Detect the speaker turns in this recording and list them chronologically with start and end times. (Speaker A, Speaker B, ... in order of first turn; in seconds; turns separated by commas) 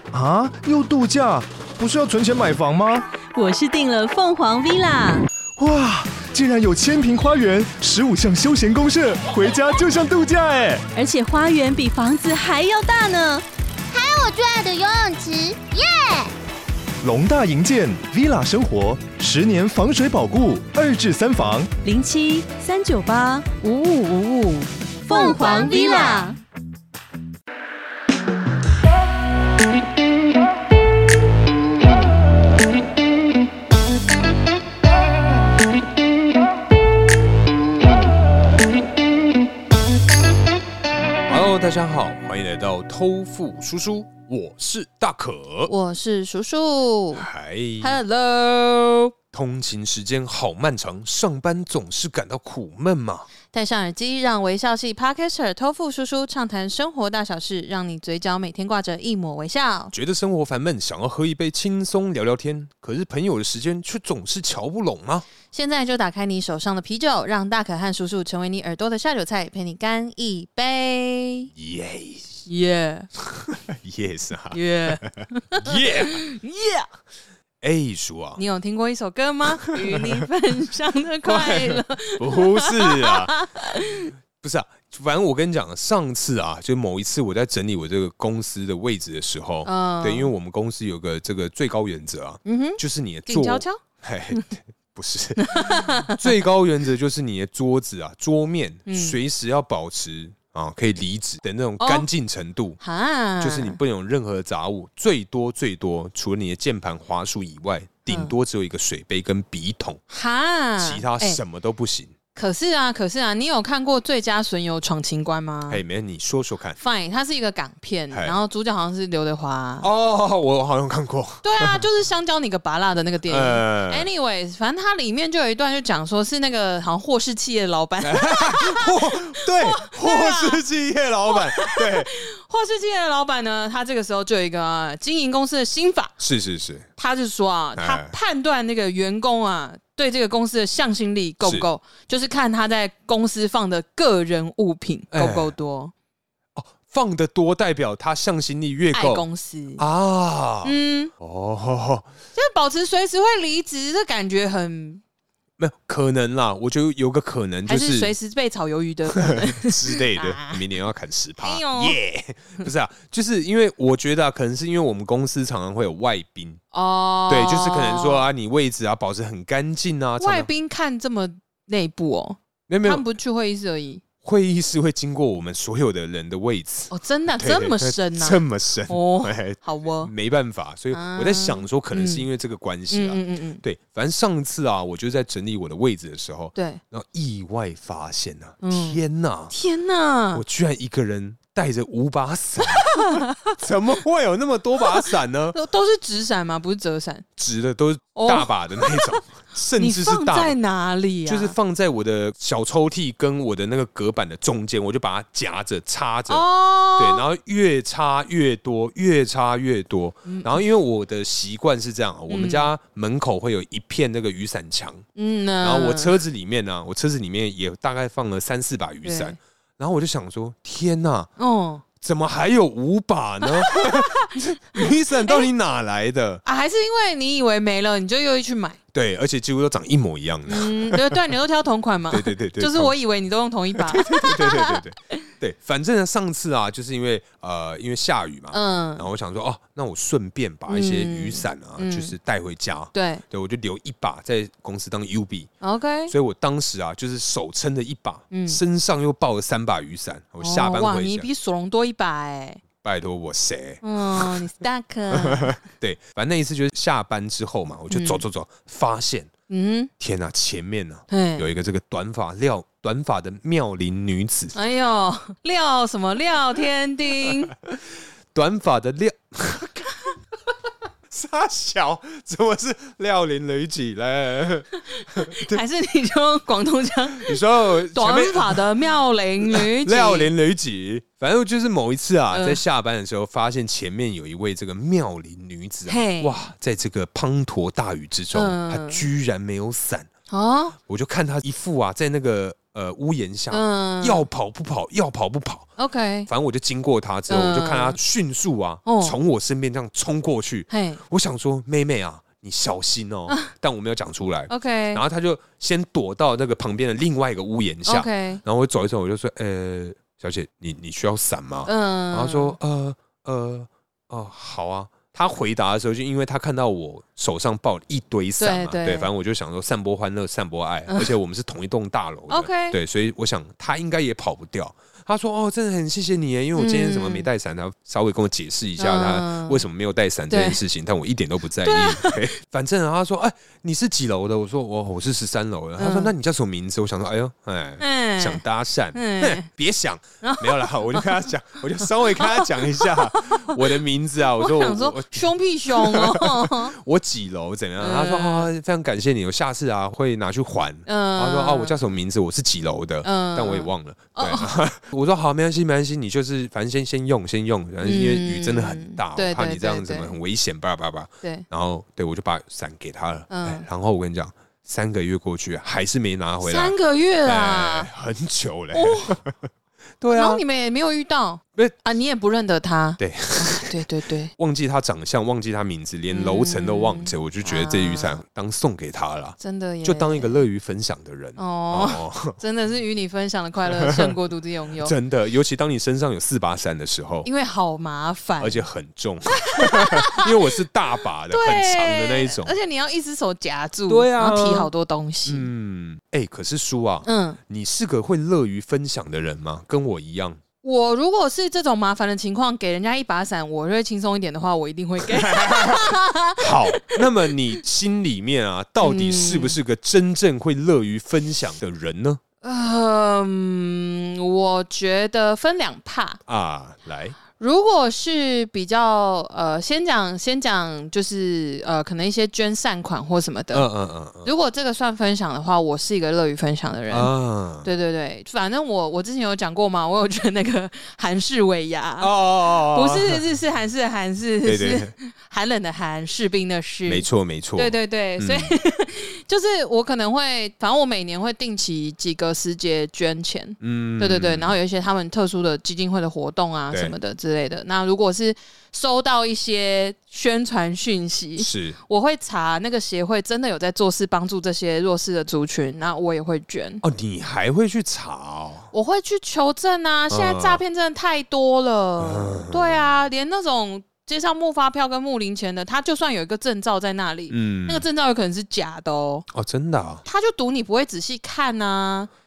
Speaker A: 0.1-3.1, Speaker B: 3.3-5.3, Speaker A: 5.6-10.8, Speaker B: 10.9-13.4, Speaker C: 13.9-16.3, Speaker A: 17.0-21.7, Speaker B: 21.8-26.4, Speaker C: 25.1-26.3, Speaker D: 41.3-45.7, Speaker E: 45.7-47.3, Speaker D: 47.1-48.0, Speaker E: 47.8-49.1, Speaker D: 49.3-53.3, Speaker E: 53.5-59.9, Speaker D: 59.9-65.3, Speaker E: 65.5-71.5, Speaker D: 71.5-72.4, Speaker E: 72.5-73.1, Speaker D: 73.2-76.2, Speaker E: 74.5-76.9, Speaker D: 77.6-78.4, Speaker E: 78.4-84.1, Speaker D: 81.2-83.3, Speaker D: 84.4-102.8, Speaker E: 89.7-90.3, Speaker E: 92.5-93.8, Speaker E: 95.4-96.2, Speaker E: 98.9-99.2, Speaker E: 101.8-102.1, Speaker E: 102.8-103.8, Speaker D: 103.4-110.0, Speaker E: 108.1-108.3, Speaker E: 110.1-111.4, Speaker D: 110.8-112.1, Speaker E: 112.3-115.8, Speaker D: 115.7-116.8, Speaker E: 116.8-119.9, Speaker D: 119.8-121.8, Speaker E: 121.4-130.6, Speaker D: 123.3-124.1, Speaker D: 128.0-132.1, Speaker E: 131.3-136.2, Speaker D: 136.2-136.9, Speaker E: 137.0-145.9, Speaker D: 137.8-138.1, Speaker D: 145.1-145.6, Speaker D: 146.6-149.3, Speaker E: 148.9-149.8, Speaker D: 149.8-152.1, Speaker E: 150.6-151.1, Speaker E: 152.3-155.0, Speaker D: 155.6-158.1, Speaker E: 157.7-160.6, Speaker D: 159.1-166.6, Speaker E: 161.4-162.0, Speaker E: 166.7-168.2, Speaker D: 167.3-170.5, Speaker E: 170.2-174.0, Speaker D: 172.7-173.0, Speaker D: 174.2-189.5, Speaker E: 176.9-180.1, Speaker E: 180.9-182.3, Speaker E: 182.9-183.6, Speaker E: 186.6-186.8, Speaker E: 188.6-189.0, Speaker E: 189.5-190.4, Speaker D: 190.3-195.6, Speaker E: 192.6-193.5, Speaker E: 194.8-197.3, Speaker D: 197.4-200.6, Speaker E: 198.2-199.2, Speaker E: 199.8-201.6, Speaker D: 201.3-206.5, Speaker E: 206.3-207.2, Speaker D: 207.0-215.1, Speaker E: 210.3-210.6, Speaker E: 212.3-212.7, Speaker E: 215.2-216.2, Speaker D: 215.6-221.3, Speaker E: 219.0-219.4, Speaker E: 221.4-221.8, Speaker D: 222.0-226.4, Speaker E: 223.4-225.5, Speaker E: 226.4-228.8, Speaker D: 228.9-231.2, Speaker E: 230.5-235.2, Speaker D: 232.1-232.9, Speaker D: 233.8-245.5, Speaker E: 238.5-239.1, Speaker E: 240.7-242.1, Speaker E: 242.9-243.2, Speaker E: 245.6-246.1, Speaker D: 246.1-251.3, Speaker E: 248.3-248.6, Speaker E: 250.4-252.6, Speaker D: 252.8-254.4, Speaker E: 253.8-255.6, Speaker D: 255.1-259.3, Speaker E: 257.9-258.2, Speaker E: 259.5-259.9, Speaker D: 260.0-264.6, Speaker E: 261.1-261.5, Speaker E: 264.5-267.5, Speaker D: 267.3-267.8, Speaker D: 268.3-269.8, Speaker D: 271.1-275.6, Speaker E: 275.0-280.3, Speaker D: 277.1-278.8, Speaker D: 279.4-290.1, Speaker E: 282.3-282.6, Speaker E: 285.9-286.4, Speaker E: 288.3-289.1, Speaker E: 290.3-290.8, Speaker D: 290.9-295.7, Speaker E: 293.5-294.2, Speaker E: 295.8-296.3, Speaker D: 296.3-369.4, Speaker E: 297.3-298.0, Speaker E: 298.9-299.2, Speaker E: 300.7-301.0, Speaker E: 304.5-305.0, Speaker E: 307.9-308.4, Speaker E: 311.7-312.6, Speaker E: 318.4-319.1, Speaker E: 320.9-321.1, Speaker E: 322.3-322.8, Speaker E: 326.6-327.3, Speaker E: 328.8-329.6, Speaker E: 330.3-330.6, Speaker E: 331.6-332.3, Speaker E: 335.8-336.1, Speaker E: 337.8-338.4, Speaker E: 338.9-339.5, Speaker E: 340.2-341.1, Speaker E: 341.8-343.6, Speaker E: 344.4-346.8, Speaker E: 347.8-348.5, Speaker E: 350.9-351.8, Speaker E: 353.0-354.6, Speaker E: 357.8-360.2, Speaker E: 363.3-363.7, Speaker E: 366.4-367.9, Speaker E: 368.7-369.2, Speaker D: 370.0-370.4, Speaker E: 370.1-374.3, Speaker D: 373.0-373.8, Speaker D: 374.4-382.4, Speaker E: 376.1-378.2, Speaker E: 379.4-380.4, Speaker E: 381.4-384.9, Speaker D: 383.7-384.1, Speaker D: 384.8-387.3, Speaker E: 387.2-388.6, Speaker D: 388.4-392.6, Speaker E: 389.4-390.4, Speaker E: 391.3-395.5, Speaker D: 393.9-394.7, Speaker D: 395.3-400.4, Speaker E: 397.1-397.4, Speaker E: 400.6-407.0, Speaker D: 405.0-412.2, Speaker E: 408.8-409.6, Speaker E: 412.4-416.2, Speaker D: 416.3-417.2, Speaker E: 417.4-423.7, Speaker D: 423.5-424.3, Speaker E: 424.2-427.1, Speaker D: 426.9-427.7, Speaker E: 427.6-456.8, Speaker D: 432.0-433.2, Speaker D: 434.4-434.9, Speaker D: 436.9-438.5, Speaker D: 443.6-444.6, Speaker D: 451.4-451.8, Speaker D: 456.8-458.7, Speaker E: 458.7-469.3, Speaker D: 460.1-460.6, Speaker D: 462.0-462.8, Speaker D: 467.3-467.9, Speaker D: 469.3-470.0, Speaker E: 470.1-472.1